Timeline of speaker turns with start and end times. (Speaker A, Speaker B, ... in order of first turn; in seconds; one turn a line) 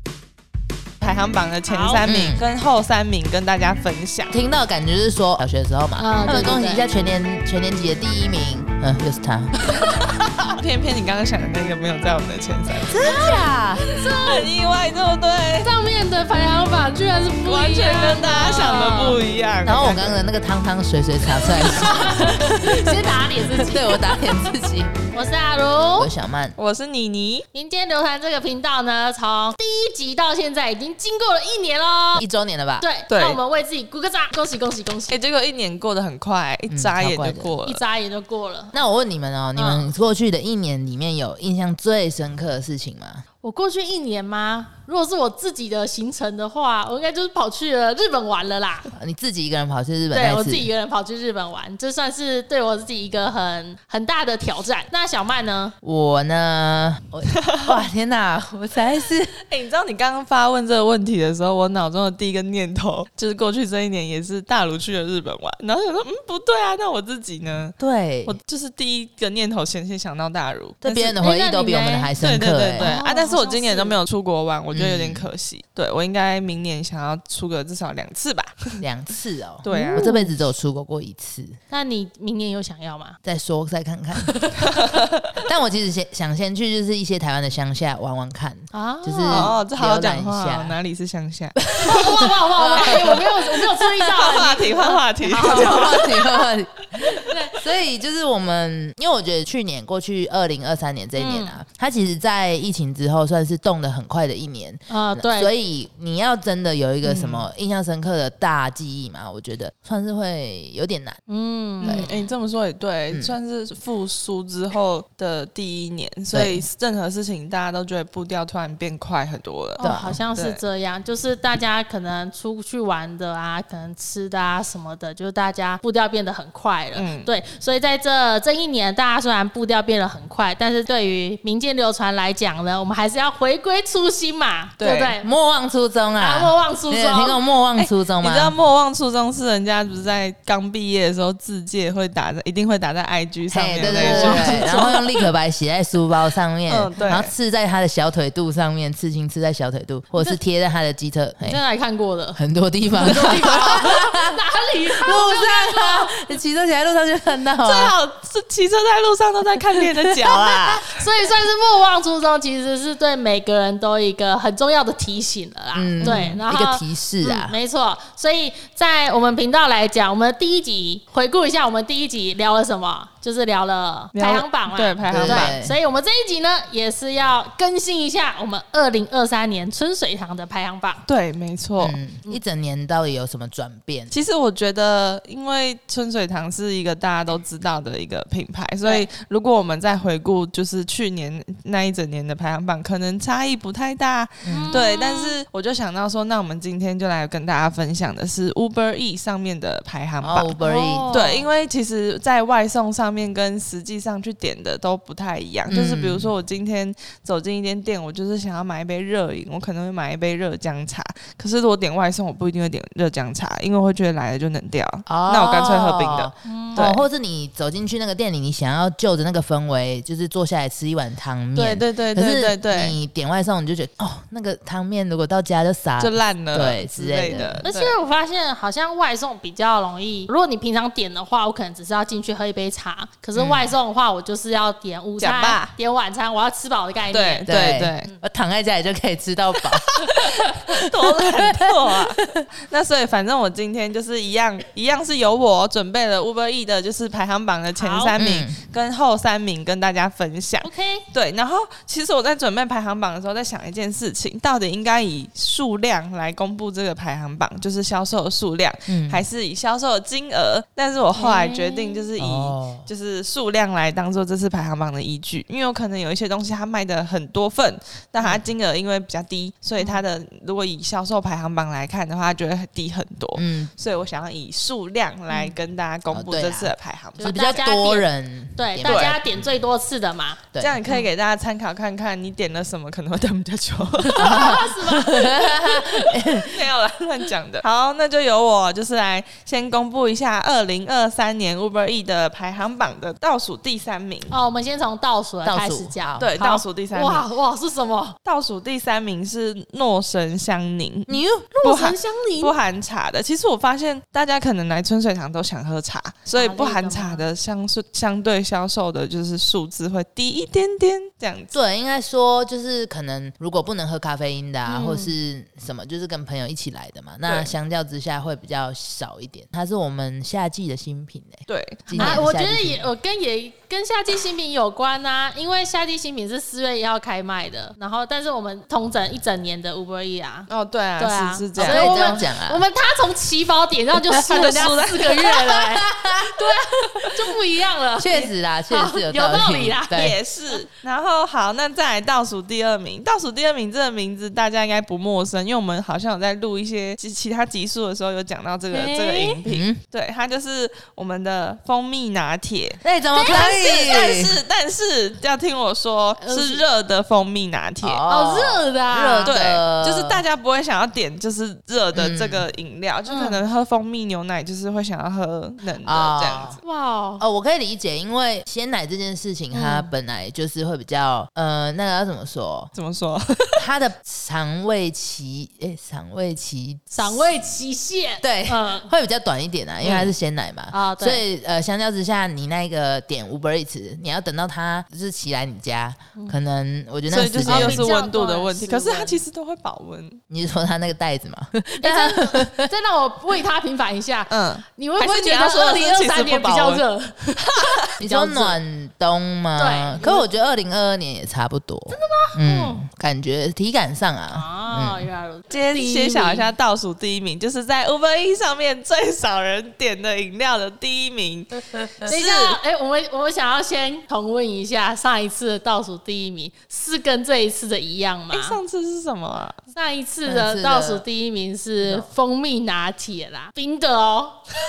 Speaker A: 1.0-4.4
Speaker B: 1.6-2.1
Speaker C: 2.0-2.4
Speaker C: 4.3-9.5
Speaker B: 6.0-6.9
Speaker A: 10.5-13.1
Speaker C: 12.9-13.9
Speaker B: 12.9-14.5
Speaker A: 13.9-15.7
Speaker B: 15.6-19.2
Speaker A: 17.4-20.2
Speaker C: 19.6-23.0
Speaker B: 21.5-24.5
Speaker C: 23.5-24.9
Speaker B: 25.1-26.1
Speaker C: 25.9-26.6
Speaker A: 26.6-27.4
Speaker B: 27.5-32.2
Speaker C: 32.2-32.9
Speaker B: 32.8-35.2
Speaker A: 33.1-33.4
Speaker A: 35.1-37.8
Speaker C: 36.7-37.5
Speaker B: 37.6-38.7
Speaker C: 38.7-43.2
Speaker B: 39.5-39.9
Speaker B: 43.4-48.9
Speaker C: 48.9-50.7
Speaker B: 50.1-55.7
Speaker C: 55.8-59.4
Speaker A: 57.3-57.7
Speaker A: 59.5-71.2
Speaker C: 67.8-68.4
Speaker C: 70.8-73.0
Speaker B: 71.2-72.1
Speaker A: 72.2-78.8
Speaker B: 72.8-74.0
Speaker C: 74.7-75.3
Speaker C: 78.8-81.6
Speaker A: 79.6-80.1
Speaker B: 79.7-80.4
Speaker B: 81.7-83.2
Speaker C: 83.2-84.5
Speaker A: 84.7-85.0
Speaker C: 85.4-90.8
Speaker B: 88.7-89.6
Speaker A: 89.3-91.7
Speaker C: 91.8-93.3
Speaker B: 91.8-96.4
Speaker A: 94.2-96.0
Speaker C: 95.4-111.2
Speaker B: 97.2-97.5
Speaker B: 101.2-101.6
Speaker B: 104.9-105.5
Speaker A: 107.0-107.5
Speaker B: 111.3-112.1
Speaker A: 111.8-120.6
Speaker C: 111.8-112.1
Speaker C: 116.3-116.7
Speaker B: 119.8-135.3
Speaker C: 119.8-120.2
Speaker A: 126.9-127.3
Speaker A: 134.8-135.2
Speaker C: 135.2-138.6
Speaker B: 136.2-137.4
Speaker A: 137.8-145.2
Speaker C: 143.5-151.6
Speaker B: 143.8-144.9
Speaker A: 146.7-147.3
Speaker B: 151.4-152.4
Speaker C: 152.3-158.0
Speaker B: 153.0-156.2
Speaker A: 157.6-161.0
Speaker B: 160.2-181.0
Speaker C: 165.7-167.6
Speaker A: 166.0-166.3
Speaker A: 174.1-175.6
Speaker C: 175.1-175.8
Speaker A: 181.1-182.0
Speaker C: 181.8-184.1
Speaker A: 184.1-200.6
Speaker C: 194.4-194.8
Speaker B: 194.5-195.3
Speaker C: 200.2-201.1
Speaker B: 200.6-201.5
Speaker A: 201.1-217.1
Speaker C: 205.7-206.3
Speaker C: 215.1-227.7
Speaker B: 216.4-216.9
Speaker A: 221.5-223.0
Speaker A: 226.0-227.9
Speaker B: 227.6-237.5
Speaker C: 233.3-233.7
Speaker A: 235.2-235.7
Speaker A: 237.1-238.1
Speaker C: 237.4-240.0
Speaker A: 239.9-277.4
Speaker C: 240.9-242.4
Speaker B: 247.8-248.2
Speaker C: 248.1-248.6
Speaker B: 250.6-251.0
Speaker C: 258.9-259.2
Speaker B: 261.1-262.1
Speaker C: 262.2-262.9
Speaker B: 269.8-270.0
Speaker C: 273.3-273.7
Speaker B: 275.3-275.5
Speaker C: 276.1-279.5
Speaker B: 277.2-281.1
Speaker A: 278.8-279.2
Speaker C: 280.5-280.8
Speaker A: 280.6-284.6
Speaker B: 284.0-286.2
Speaker C: 284.2-286.7
Speaker A: 286.4-294.3
Speaker B: 294.3-298.1
Speaker C: 295.4-296.3
Speaker A: 296.2-297.3
Speaker A: 298.2-311.6
Speaker C: 301.1-301.5
Speaker B: 301.5-302.5
Speaker B: 306.3-307.3
Speaker C: 311.5-322.9
Speaker B: 314.7-315.1
Speaker A: 317.2-317.5
Speaker A: 321.5-322.2
Speaker B: 321.9-340.6
Speaker A: 330.5-332.3
Speaker C: 331.6-332.6
Speaker A: 334.1-335.5
Speaker C: 335.8-336.3
Speaker C: 338.0-340.2
Speaker A: 339.9-358.0
Speaker B: 348.7-349.4
Speaker C: 349.5-349.8
Speaker C: 352.8-354.4
Speaker B: 353.1-353.6
Speaker B: 356.2-356.6
Speaker C: 357.8-360.2
Speaker B: 358.1-359.4
Speaker A: 359.2-366.6
Speaker C: 361.9-362.5
Speaker B: 363.1-363.4
Speaker C: 365.8-366.6
Speaker B: 366.6-367.2
Speaker C: 367.2-372.7
Speaker B: 369.5-369.9
Speaker A: 372.7-373.6
Speaker C: 373.6-377.6
Speaker B: 376.9-378.9
Speaker C: 378.2-387.9
Speaker A: 379.8-380.1
Speaker B: 380.7-381.2
Speaker A: 387.1-390.2
Speaker B: 387.4-389.2
Speaker C: 390.3-392.7
Speaker B: 391.8-398.6
Speaker A: 394.3-396.8
Speaker C: 398.0-405.1
Speaker B: 399.6-400.3
Speaker B: 401.9-402.8
Speaker B: 404.3-406.5
Speaker A: 405.5-412.6
Speaker B: 412.0-418.6
Speaker A: 418.3-419.6
Speaker B: 419.7-424.4
Speaker C: 420.2-421.0